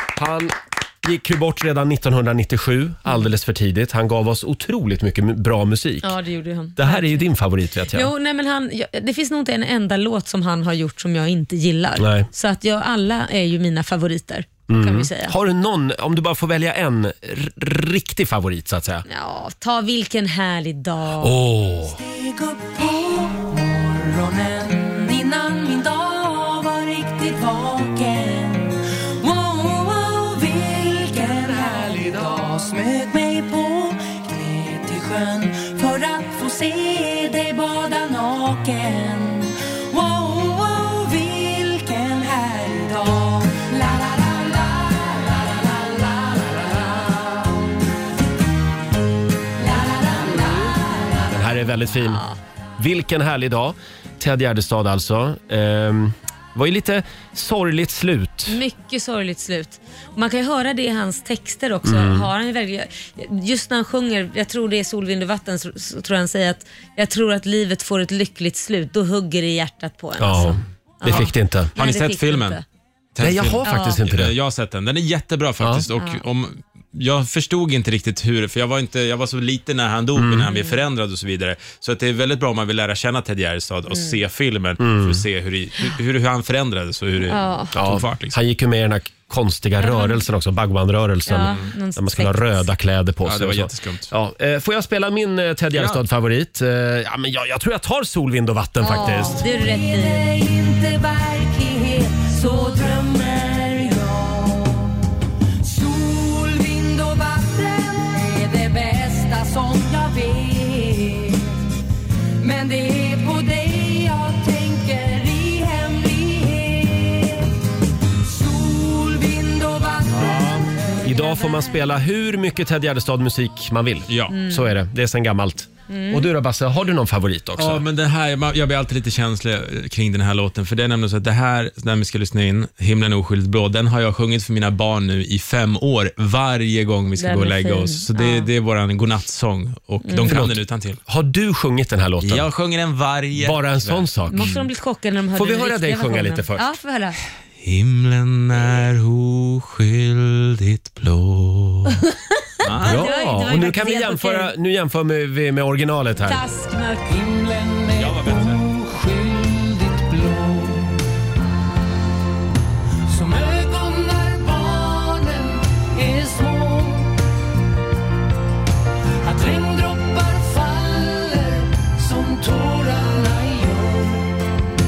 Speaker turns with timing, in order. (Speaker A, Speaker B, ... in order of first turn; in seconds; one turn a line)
Speaker A: 0.1-6.1
Speaker B: 6.0-7.2
Speaker A: 6.8-8.1
Speaker B: 7.9-15.3
Speaker A: 12.0-12.3
Speaker A: 14.7-19.0
Speaker B: 19.1-21.4
Speaker A: 21.2-22.0
Speaker C: 21.8-47.5
Speaker C: 49.6-51.4
Speaker A: 51.3-52.2
Speaker B: 52.1-52.3
Speaker A: 52.8-58.6
Speaker B: 58.5-72.6
Speaker A: 61.8-62.3
Speaker A: 70.2-71.7
Speaker D: 71.1-72.6
Speaker D: 73.1-88.3
Speaker A: 73.2-74.3
Speaker B: 73.6-74.0
Speaker B: 76.0-76.2
Speaker A: 80.2-80.5
Speaker B: 80.5-80.8
Speaker B: 83.9-84.2
Speaker A: 84.8-85.2
Speaker B: 87.3-87.7
Speaker A: 87.7-99.4
Speaker B: 89.8-90.2
Speaker B: 91.3-92.7
Speaker D: 93.2-94.1
Speaker D: 95.7-96.0
Speaker B: 98.8-100.3
Speaker C: 98.9-104.9
Speaker C: 105.6-111.6
Speaker C: 112.4-117.5
Speaker C: 118.2-120.6
Speaker A: 120.2-127.8
Speaker B: 121.0-121.6
Speaker D: 124.1-124.3
Speaker B: 124.3-124.7
Speaker B: 125.9-126.3
Speaker D: 127.6-141.0
Speaker B: 137.2-138.5
Speaker B: 140.0-140.4
Speaker A: 140.2-142.5
Speaker D: 142.2-144.6
Speaker A: 143.3-144.5
Speaker B: 144.3-147.2
Speaker A: 145.3-146.7
Speaker D: 147.6-152.0
Speaker D: 152.6-153.1
Speaker A: 152.8-156.4
Speaker B: 152.8-154.5
Speaker B: 156.2-157.1
Speaker C: 157.1-160.9
Speaker D: 157.9-158.6
Speaker C: 163.1-167.1
Speaker C: 169.2-174.3